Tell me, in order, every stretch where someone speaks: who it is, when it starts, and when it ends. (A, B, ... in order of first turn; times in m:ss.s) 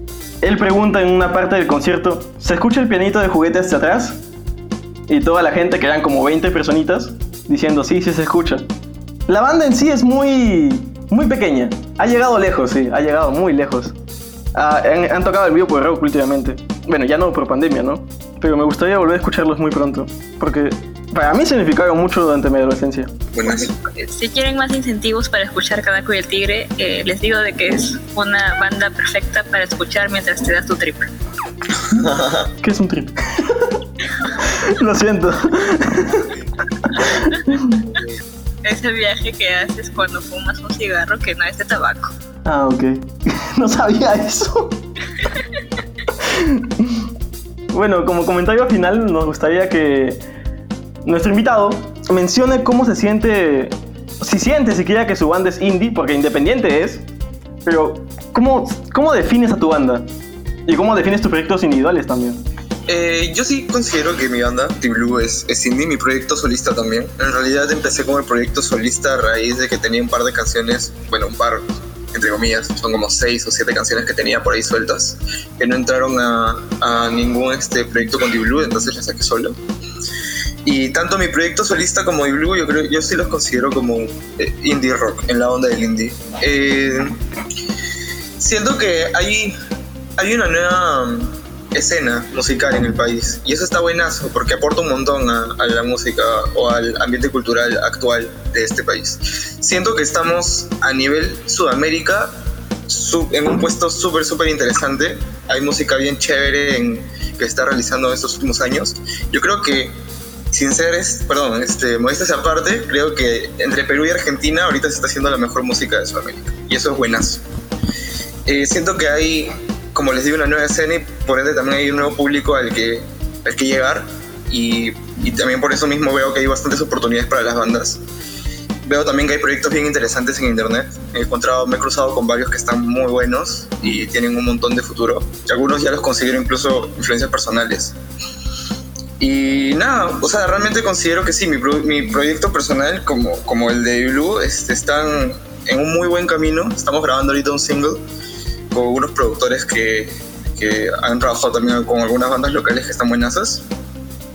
0:00.4-0:04.2 A
0:05.1-0:08.7 A
0:09.3-0:13.9 A
0:14.5-0:23.2 A
0:23.3-0:23.7 B
0:23.8-0:31.1 C
0:31.9-0:32.5 B
0:32.6-0:33.8 A
0:34.4-0:36.3 A
0:36.9-0:37.8 A
0:38.6-0:42.1 C
0:42.4-0:44.8 A
0:46.2-0:47.1 A
0:47.7-0:50.2 A
0:51.0-0:57.0 A
0:57.6-1:00.1 A
1:00.6-1:02.4 A
1:02.9-1:19.6 B
1:20.6-1:27.2 B
1:28.4-1:29.6 B
1:30.2-1:42.4 B
1:42.9-1:49.9 B
1:50.5-1:57.4 B
1:58.4-2:08.0 B
2:08.8-2:17.9 B
2:19.2-2:28.0 B
2:28.7-2:33.6 B